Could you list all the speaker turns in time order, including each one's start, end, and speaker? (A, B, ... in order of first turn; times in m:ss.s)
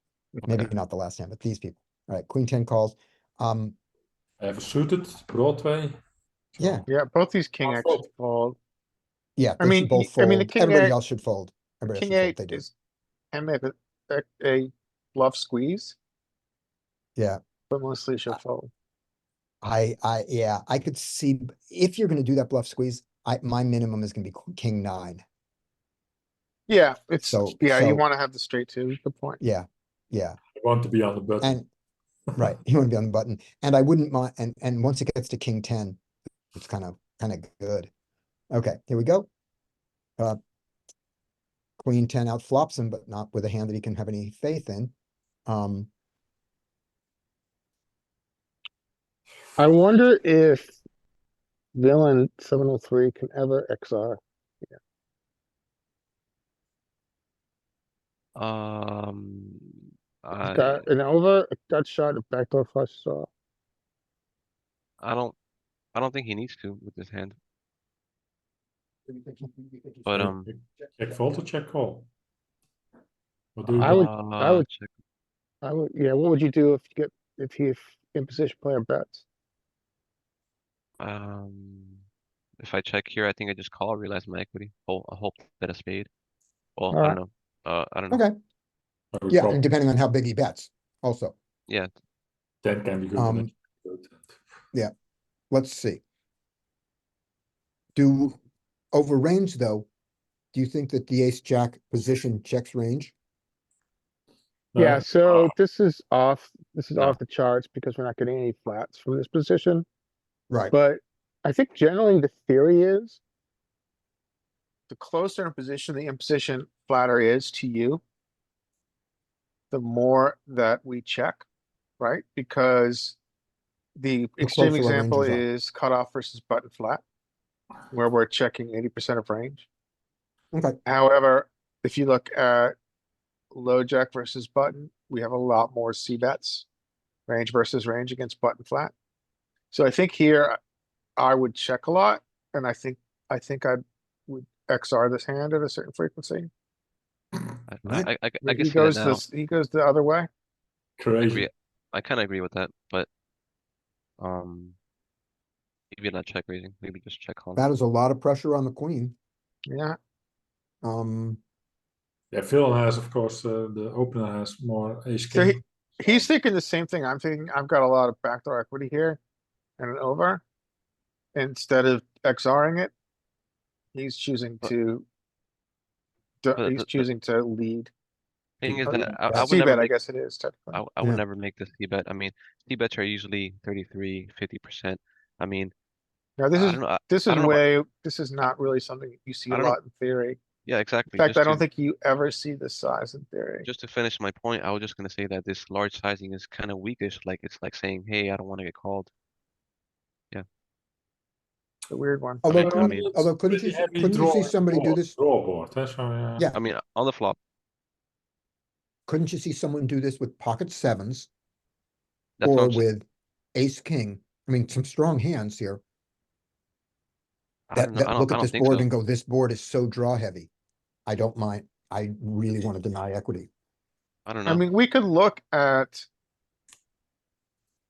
0:00.5-0:03.8 A
0:04.4-0:06.0 B
0:06.6-0:06.8 B
0:06.6-0:06.9 A
0:06.9-0:08.6 C
0:07.6-0:08.1 B
0:09.4-0:12.6 A
0:09.6-0:11.0 C
0:11.9-0:12.7 C
0:13.3-0:16.0 C
0:17.7-0:18.7 C
0:19.6-0:25.2 A
0:26.7-0:29.4 C
0:27.3-0:28.0 A
0:29.4-0:30.4 A
0:30.6-0:31.6 B
0:31.4-0:31.7 A
0:32.4-0:36.0 A
0:36.6-0:37.9 A
0:38.5-0:39.3 A
0:41.8-0:44.9 A
0:45.5-0:45.9 A
0:49.6-0:50.8 C
0:51.8-0:54.8 C
0:58.4-1:00.9 D
1:00.4-1:03.3 C
1:05.0-1:05.4 D
1:05.9-1:07.4 D
1:09.1-1:10.3 A
1:10.1-1:10.5 D
1:10.2-1:12.1 B
1:13.6-1:14.1 B
1:13.8-1:14.7 C
1:13.8-1:14.9 D
1:15.6-1:19.2 C
1:21.0-1:22.0 D
1:22.6-1:26.1 D
1:26.8-1:28.2 D
1:26.9-1:27.2 C
1:28.1-1:28.4 A
1:29.1-1:29.6 B
1:29.3-1:31.3 A
1:32.6-1:34.4 B
1:33.2-1:33.5 A
1:35.5-1:36.0 A
1:38.0-1:38.4 A
1:38.9-1:39.9 A
1:40.5-1:43.2 A
1:44.7-1:45.6 B
1:44.8-1:49.9 C
1:50.7-1:53.2 C
1:54.9-1:58.0 C
1:59.7-2:01.4 C
2:02.0-2:03.2 C
2:04.0-2:07.0 C
2:04.4-2:05.4 A
2:07.9-2:09.7 C
2:10.5-2:10.8 A
2:10.9-2:12.7 C
2:13.5-2:16.7 C
2:17.3-2:18.9 C
2:19.7-2:20.6 C
2:21.2-2:26.5 C
2:27.7-2:29.2 D
2:28.4-2:30.3 C
2:31.0-2:31.5 B
2:31.3-2:33.1 D
2:34.2-2:34.8 D
2:35.9-2:37.6 D
2:37.6-2:39.2 A
2:39.7-2:40.0 C
2:40.8-2:41.4 A
2:42.3-2:45.6 B
2:45.3-2:49.2 C
2:49.8-2:50.4 C
2:51.4-2:52.9 C
2:53.9-2:55.1 C
2:56.4-2:57.9 C
2:56.6-2:57.1 D
2:58.6-2:59.9 D
2:58.6-2:59.5 A
2:59.3-3:00.8 C
3:00.7-3:05.7 D
3:06.4-3:10.4 C
3:06.5-3:07.6 D
3:09.5-3:09.8 D
3:10.7-3:11.6 D
3:11.1-3:13.7 C
3:13.6-3:19.1 D
3:21.9-3:22.4 C
3:22.4-3:25.1 A
3:22.5-3:23.1 D
3:22.5-3:26.4 B
3:26.5-3:27.4 D
3:29.1-3:31.3 A
3:32.4-3:32.8 D
3:32.4-3:35.8 A
3:37.7-3:38.9 D
3:37.7-3:40.5 A
3:41.1-3:43.5 A
3:44.3-3:44.6 D
3:44.5-3:46.1 C